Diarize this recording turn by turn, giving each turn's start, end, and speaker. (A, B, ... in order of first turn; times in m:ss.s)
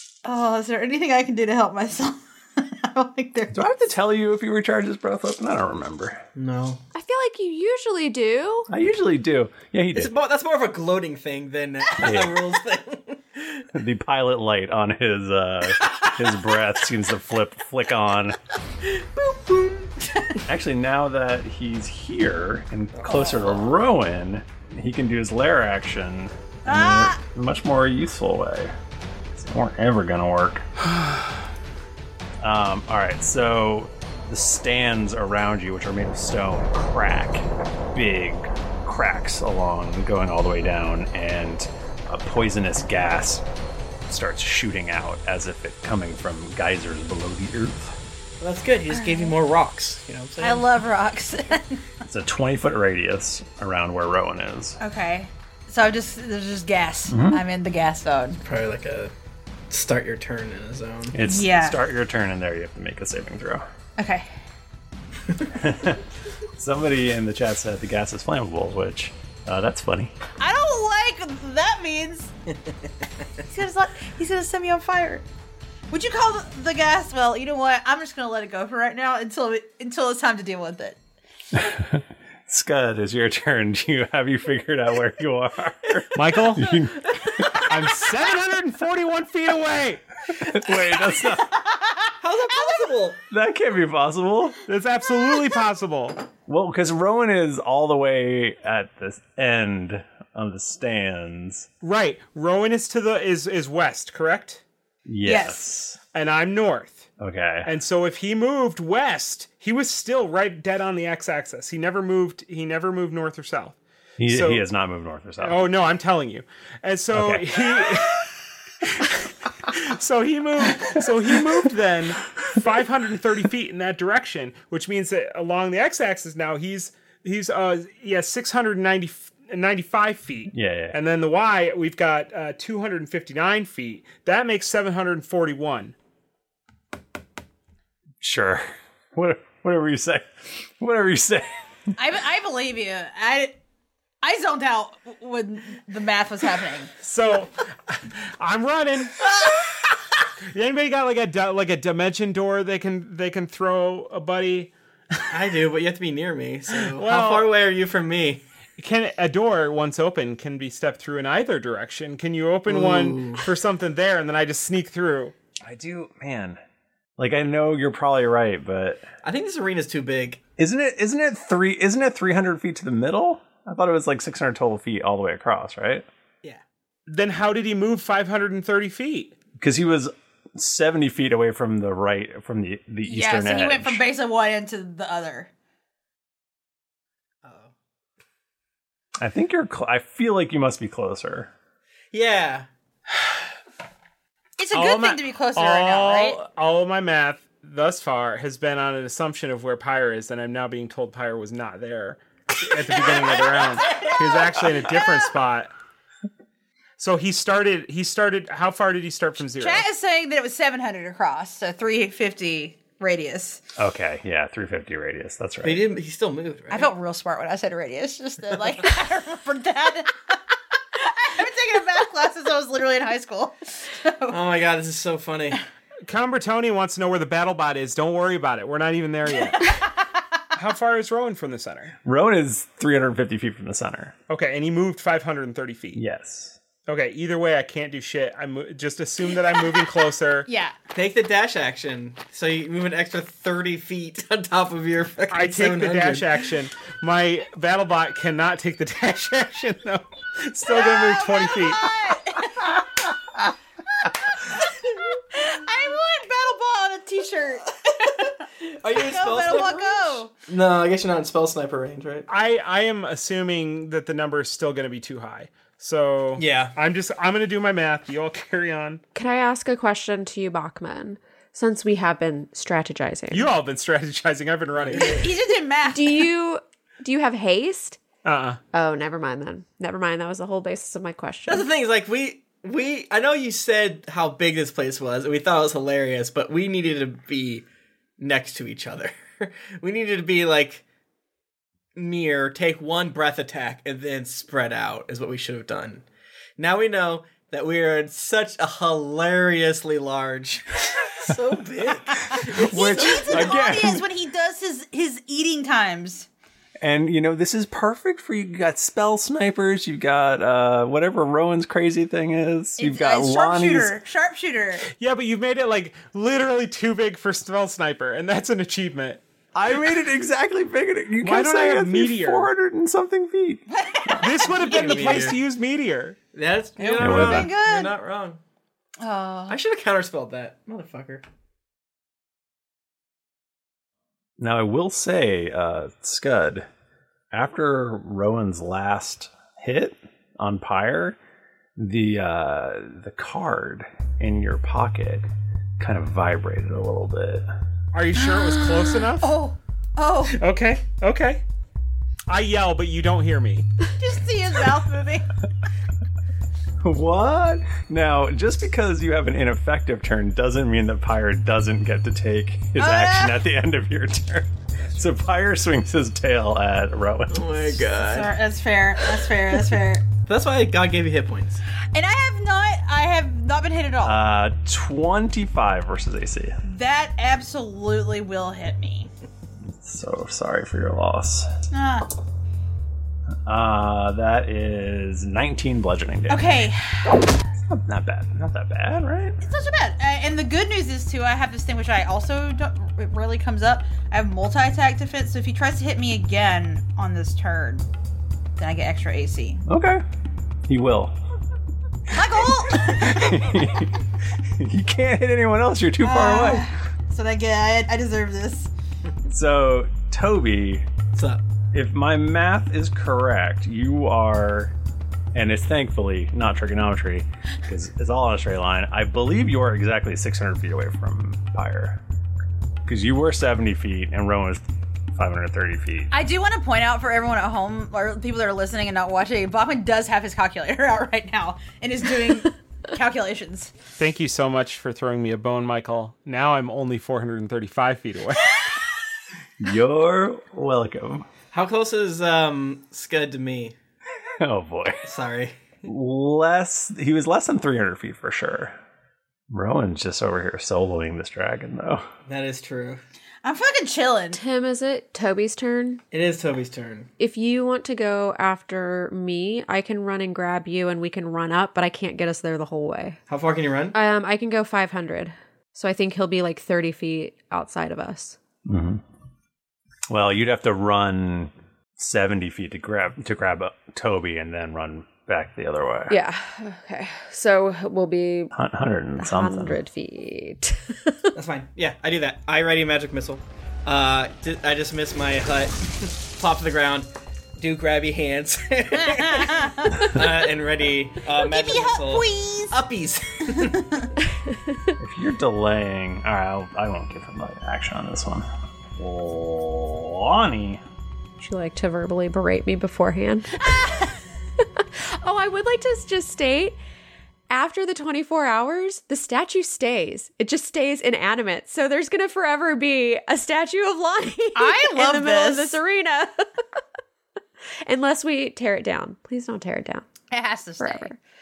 0:00.2-0:03.6 A
0:03.5-0:06.2 B
0:06.3-0:06.8 C
0:06.9-0:08.7 D
0:08.7-0:10.1 B
0:09.9-0:13.6 C
0:12.0-0:12.4 B
0:13.7-0:18.4 B
0:20.0-0:20.3 A
0:20.5-0:28.7 B
0:22.9-0:23.6 C
0:26.6-0:27.2 A
0:29.3-0:30.6 B
0:32.4-0:43.4 B
0:44.1-0:47.9 B
0:48.4-0:50.7 C
0:49.0-0:49.3 A
0:50.4-0:51.8 A
0:52.1-0:54.8 B
0:54.8-0:58.4 A
0:57.1-0:57.4 B
0:58.4-0:59.1 C
0:59.7-1:01.2 C
1:01.1-1:03.6 B
1:01.2-1:01.8 A
1:04.0-1:04.3 A
1:05.6-1:06.0 B
1:06.6-1:10.1 B
1:10.4-1:12.3 A
1:13.5-1:15.2 A
1:15.9-1:21.0 A
1:21.6-1:27.0 B
1:26.1-1:26.8 E
1:26.6-1:28.0 C
1:27.7-1:30.0 E
1:30.3-1:31.6 B
1:31.7-1:32.9 A
1:32.2-1:33.2 C
1:33.2-1:34.6 B
1:34.6-1:36.3 E
1:36.4-1:41.7 B
1:41.8-1:44.6 E
1:45.0-1:46.0 B
1:45.2-1:45.6 A
1:46.1-1:47.1 E
1:47.2-1:47.7 B
1:47.6-1:54.6 E
1:54.2-1:55.7 B
1:55.4-1:58.2 E
1:57.1-1:57.5 B
1:59.7-2:15.9 E
2:10.5-2:11.0 B
2:18.2-2:20.3 B
2:20.8-2:21.5 B
2:22.0-2:23.6 A
2:24.2-2:26.9 A
2:27.0-2:29.2 E
2:30.5-2:34.7 E
2:35.3-2:38.4 C
2:36.8-2:37.5 E
2:38.8-2:45.3 E
2:42.7-2:43.4 C
2:45.6-2:46.6 B
2:47.2-2:49.0 B
2:49.2-2:50.4 C
2:50.6-2:56.0 B
2:57.1-2:59.4 E
2:59.5-3:04.0 B
3:03.0-3:05.5 A
3:07.4-3:07.7 C
3:09.2-3:11.5 B
3:12.1-3:12.7 C
3:14.6-3:16.4 A
3:14.7-3:25.7 E
3:22.9-3:25.2 A
3:27.0-3:29.8 E
3:29.6-3:33.6 A
3:33.8-3:35.8 B
3:35.6-3:36.9 C
3:36.7-3:40.3 A
3:41.0-3:44.4 A
3:44.3-3:45.6 C
3:46.0-3:49.7 E
3:50.5-3:51.9 E
3:52.0-3:54.2 B
3:54.3-3:56.0 E
3:55.9-3:56.6 B
3:56.9-4:00.5 E
4:00.5-4:00.7 A
4:00.9-4:06.4 C
4:05.3-4:11.8 E
4:10.7-4:12.6 A
4:15.3-4:18.3 A
4:18.8-4:22.3 C
4:19.0-4:20.3 A
4:22.3-4:29.0 E
4:26.4-4:26.7 C
4:29.1-4:33.5 D
4:33.3-4:35.3 E
4:34.8-4:35.3 C
4:35.0-4:36.3 A
4:35.9-4:38.0 D
4:38.2-4:38.6 E
4:38.7-4:41.7 D
4:41.5-4:47.6 C
4:48.2-4:50.8 C
4:52.0-4:56.0 C
4:56.6-5:03.6 C
5:02.4-5:04.0 B
5:02.5-5:06.3 A
5:06.8-5:13.9 B
5:12.8-5:14.8 A
5:15.0-5:19.2 E
5:19.5-5:23.6 B
5:21.2-5:22.5 E
5:23.7-5:25.2 A
5:24.2-5:26.2 E
5:24.6-5:25.4 C
5:26.3-5:28.4 C
5:26.8-5:27.9 A
5:27.0-5:27.5 B
5:29.0-5:29.6 A
5:29.5-5:31.2 C
5:34.4-5:36.7 B
5:37.3-5:41.2 B
5:41.8-5:45.3 B
5:45.8-5:47.5 B
5:47.9-5:49.3 E
5:48.2-5:50.4 A
5:50.4-5:51.4 E
5:52.3-5:53.6 E
5:54.0-5:55.3 A
5:56.8-6:07.8 B
6:02.8-6:03.4 A
6:07.3-6:08.3 C
6:08.0-6:10.0 A
6:10.3-6:11.6 C
6:11.9-6:14.2 A
6:14.0-6:16.6 B
6:16.6-6:19.1 A
6:19.7-6:21.5 B
6:21.7-6:22.1 A
6:23.5-6:26.7 B
6:26.3-6:27.2 A
6:27.6-6:29.4 B
6:29.4-6:37.8 A
6:38.6-6:39.6 A
6:39.7-6:40.0 B
6:40.7-6:41.2 B
6:42.1-6:43.3 A
6:42.7-6:43.9 B
6:44.6-6:46.7 B
6:46.0-6:48.7 A
6:49.3-6:50.8 B
6:51.1-6:51.4 C
6:51.7-6:54.7 B
6:55.3-7:02.0 B
7:02.8-7:04.6 B
7:05.2-7:06.1 B
7:06.1-7:13.7 A
7:14.0-7:18.6 E
7:19.6-7:21.3 B
7:21.5-7:23.7 C
7:24.4-7:25.0 B
7:25.0-7:25.7 C
7:25.8-7:28.8 B
7:29.5-7:32.1 B
7:32.3-7:33.0 C
7:33.4-7:34.4 A
7:34.3-7:36.0 D
7:36.1-7:37.1 C
7:37.2-7:43.2 D
7:43.3-7:44.0 C
7:43.9-7:48.4 D
7:48.6-7:49.0 B
7:50.1-7:56.2 B
7:56.1-7:58.5 D
7:58.5-7:59.8 B
7:59.2-8:01.3 D
8:01.3-8:13.8 C
8:09.0-8:10.1 A
8:11.4-8:12.7 A
8:13.6-8:14.1 A
8:15.0-8:20.8 B
8:21.4-8:24.0 D
8:24.6-8:26.8 D
8:27.5-8:36.4 D
8:34.5-8:35.8 A
8:37.8-8:40.1 D
8:40.3-8:41.1 A
8:40.8-8:41.2 D